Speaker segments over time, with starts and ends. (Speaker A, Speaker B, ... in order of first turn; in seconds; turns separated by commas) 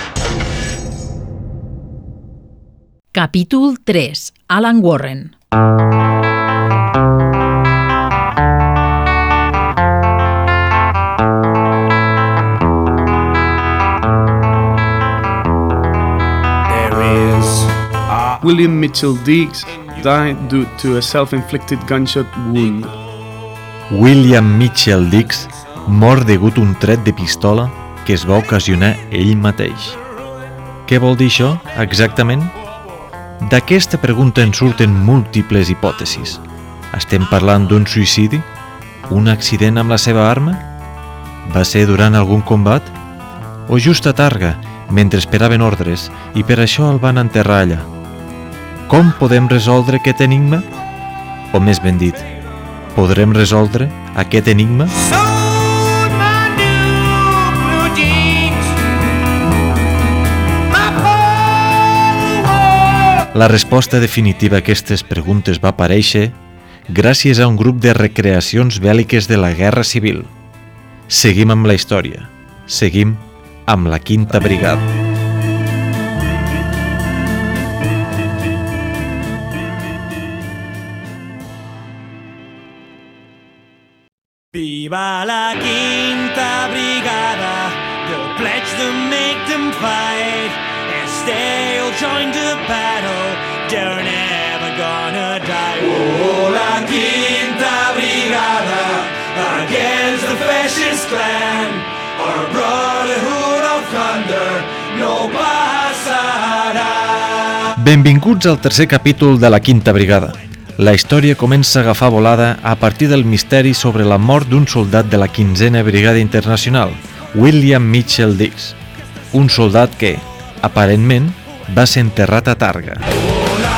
Speaker A: 3.1-5.3, Speaker B: 16.7-17.7, Speaker C: 18.4-22.9, Speaker D: 23.9-30.0, Speaker D: 30.9-32.5, Speaker D: 33.4-38.5, Speaker D: 39.1-40.6, Speaker D: 41.4-42.9, Speaker D: 43.7-47.9, Speaker D: 48.9-50.6, Speaker D: 51.5-52.3, Speaker D: 52.9-55.0, Speaker B: 55.1-58.9, Speaker B: 60.8-62.1, Speaker D: 63.3-66.3, Speaker D: 66.9-70.3, Speaker D: 71.1-74.8, Speaker B: 84.5-107.7, Speaker D: 107.8-118.8, Speaker D: 119.3-123.0